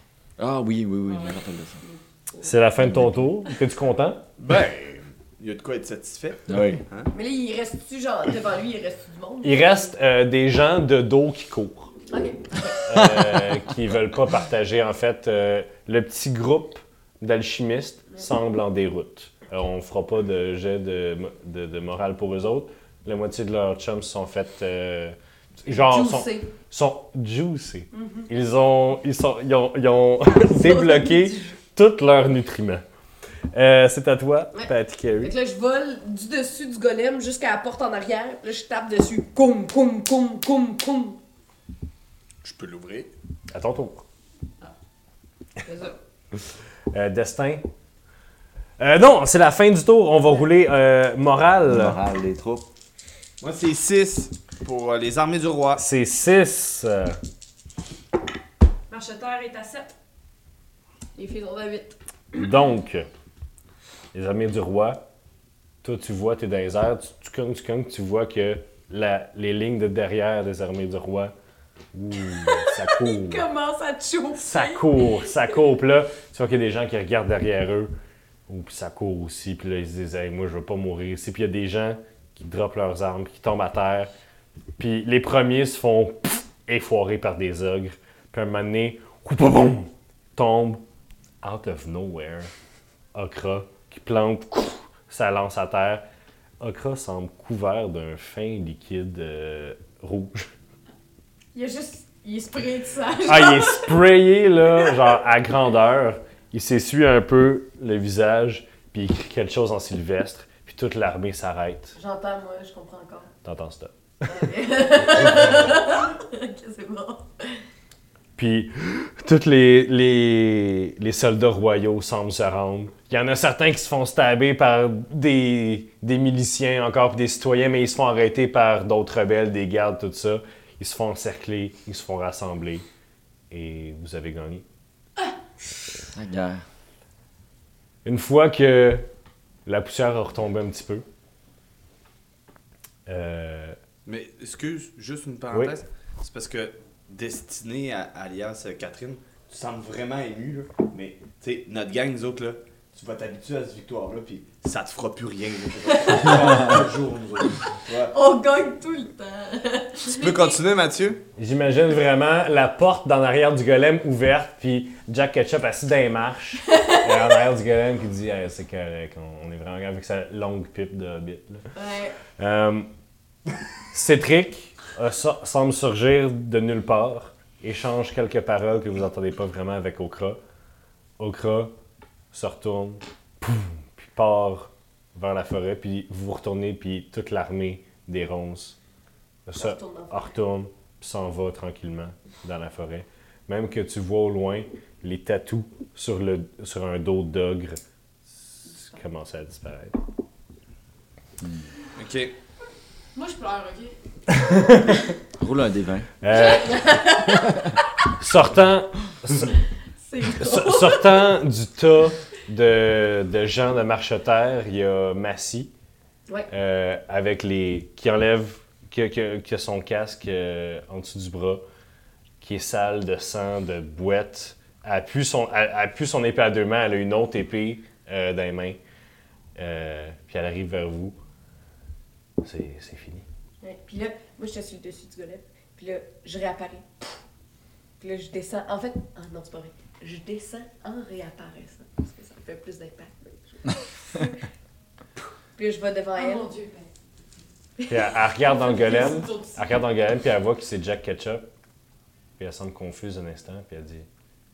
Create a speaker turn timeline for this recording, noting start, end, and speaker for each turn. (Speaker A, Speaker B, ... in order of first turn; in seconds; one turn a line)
Speaker A: 0.4-1.8
Speaker B: 1.1-1.4
Speaker C: 1.8-2.5
Speaker D: 2.4-4.2
Speaker A: 2.8-3.2
Speaker E: 4.4-7.1
Speaker A: 6.5-6.8
Speaker C: 7.1-9.9
Speaker D: 9.4-11.9
Speaker C: 12.1-12.8
Speaker D: 12.8-32.8
Speaker A: 12.9-13.6
Speaker C: 25.7-26.5
Speaker C: 27.9-28.3
Speaker C: 30.4-31.4
Speaker D: 33.5-35.4
Speaker C: 34.5-41.2
Speaker E: 42.4-43.1
Speaker D: 43.5-44.0
Speaker C: 45.7-46.0
Speaker D: 46.9-47.7
Speaker D: 48.8-52.0
Speaker A: 51.7-52.7
Speaker E: 53.4-55.8
Speaker D: 55.8-57.2
Speaker B: 58.9-59.9
Speaker C: 61.1-62.0
Speaker D: 62.3-63.1
Speaker D: 64.1-65.1
Speaker D: 65.8-71.3
Speaker D: 71.9-73.5
Speaker C: 72.4-75.3
Speaker D: 74.4-77.9
Speaker D: 78.5-84.1
Speaker D: 84.8-90.8
Speaker D: 91.4-92.5
Speaker D: 93.1-96.0
Speaker D: 96.6-100.5
Speaker C: 101.5-104.0
Speaker D: 103.2-112.0
Speaker C: 112.0-113.3
Speaker D: 113.4-114.5
Speaker C: 114.3-117.6
Speaker D: 115.3-115.6
Speaker D: 118.4-132.9
Speaker D: 133.5-134.6
Speaker A: 136.1-136.6
Speaker D: 138.1-139.1
Speaker D: 139.7-141.1
Speaker D: 143.1-143.8
Speaker E: 144.1-158.2
Speaker C: 156.1-156.6
Speaker C: 158.1-160.4
Speaker E: 160.1-161.3
Speaker D: 161.4-171.7
Speaker C: 166.7-167.4
Speaker C: 171.8-172.2
Speaker D: 172.4-172.9
Speaker D: 173.9-180.4
Speaker D: 181.2-181.7
Speaker D: 182.3-188.8
Speaker D: 189.5-197.8
Speaker C: 189.6-190.3
Speaker D: 198.8-200.0
Speaker A: 201.4-201.7
Speaker E: 201.9-202.3
Speaker B: 203.1-204.0
Speaker D: 204.3-205.1
Speaker A: 205.4-206.1
Speaker D: 206.2-209.6
Speaker C: 206.3-207.6
Speaker C: 210.1-211.3
Speaker D: 210.2-215.7
Speaker D: 216.5-221.6
Speaker D: 222.4-228.8
Speaker D: 229.6-231.2
Speaker D: 232.4-233.2
Speaker C: 233.6-237.1
Speaker C: 238.0-244.4
Speaker C: 245.6-246.5
Speaker B: 246.2-246.9
Speaker D: 247.9-251.5
Speaker B: 248.4-249.8
Speaker D: 252.4-254.1